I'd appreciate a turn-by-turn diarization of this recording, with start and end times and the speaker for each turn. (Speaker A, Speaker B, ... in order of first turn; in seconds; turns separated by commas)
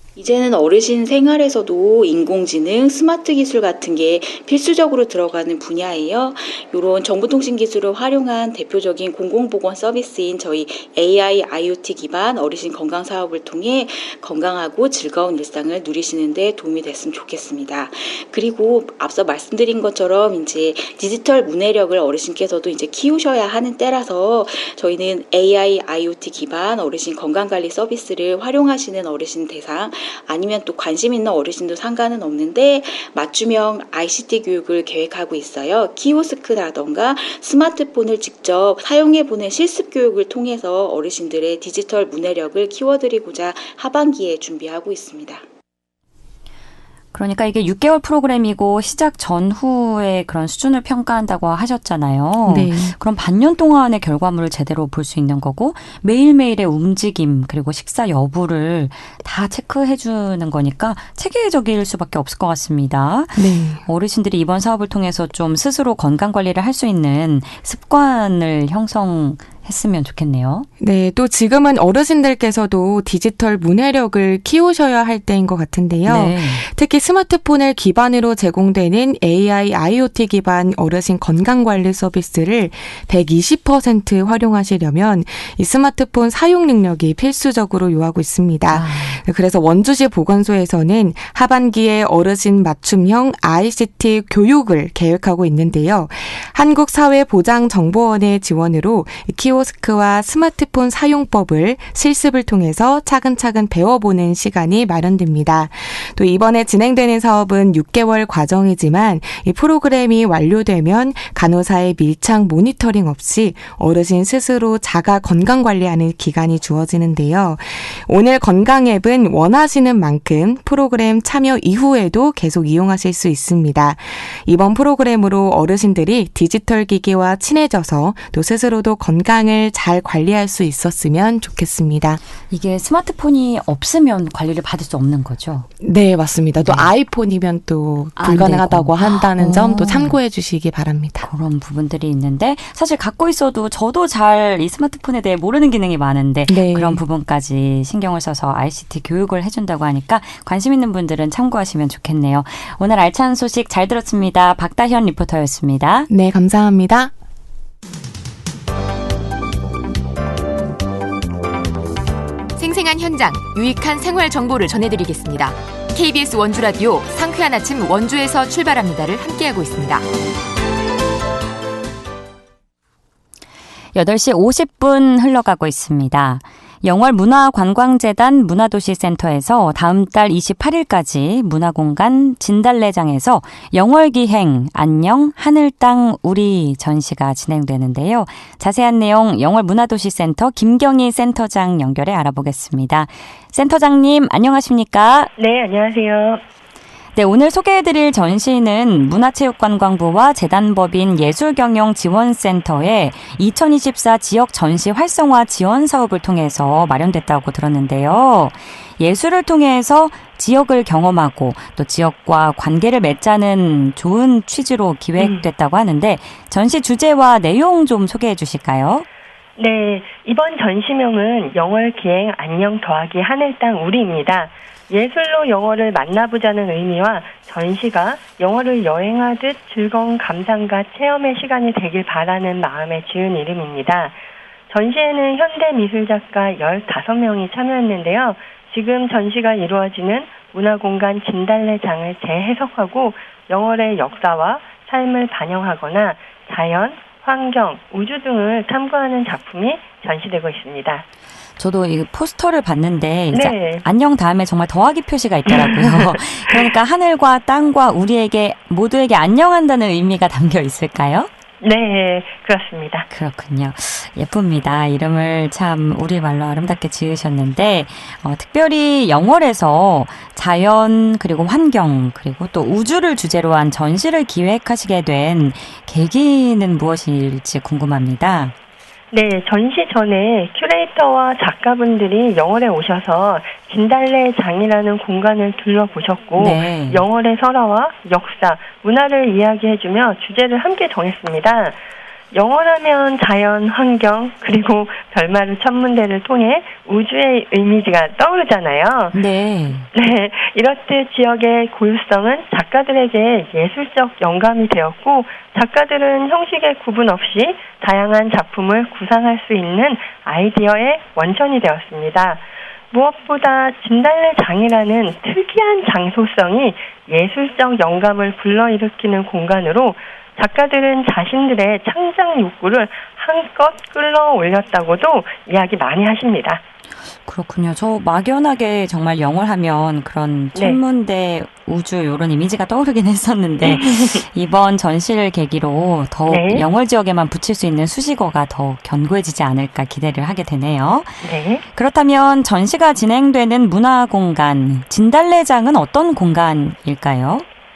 Speaker A: 0.2-45.4, Speaker B: 47.1-70.7, Speaker C: 52.5-53.0, Speaker C: 63.4-63.8, Speaker C: 70.8-132.2, Speaker B: 76.1-76.7, Speaker B: 88.7-89.2, Speaker B: 132.5-135.7, Speaker C: 135.8-141.3, Speaker B: 136.6-136.9, Speaker B: 138.2-140.2, Speaker B: 141.2-156.1, Speaker C: 146.5-147.0, Speaker C: 156.1-157.1, Speaker D: 162.6-170.1, Speaker B: 173.9-195.3, Speaker E: 195.4-196.4, Speaker B: 197.1-219.1, Speaker E: 215.2-215.4, Speaker E: 219.6-234.2, Speaker E: 234.7-251.1, Speaker B: 251.6-261.3, Speaker E: 253.3-253.8, Speaker E: 255.5-256.2, Speaker E: 261.6-263.1, Speaker B: 263.1-278.5, Speaker E: 279.1-291.8, Speaker B: 286.4-287.0, Speaker E: 292.3-299.2, Speaker B: 299.1-299.9, Speaker E: 299.9-326.6, Speaker B: 327.2-341.2, Speaker E: 330.6-330.8, Speaker E: 333.6-334.2, Speaker E: 336.3-336.6, Speaker E: 341.2-341.6, Speaker B: 341.7-347.4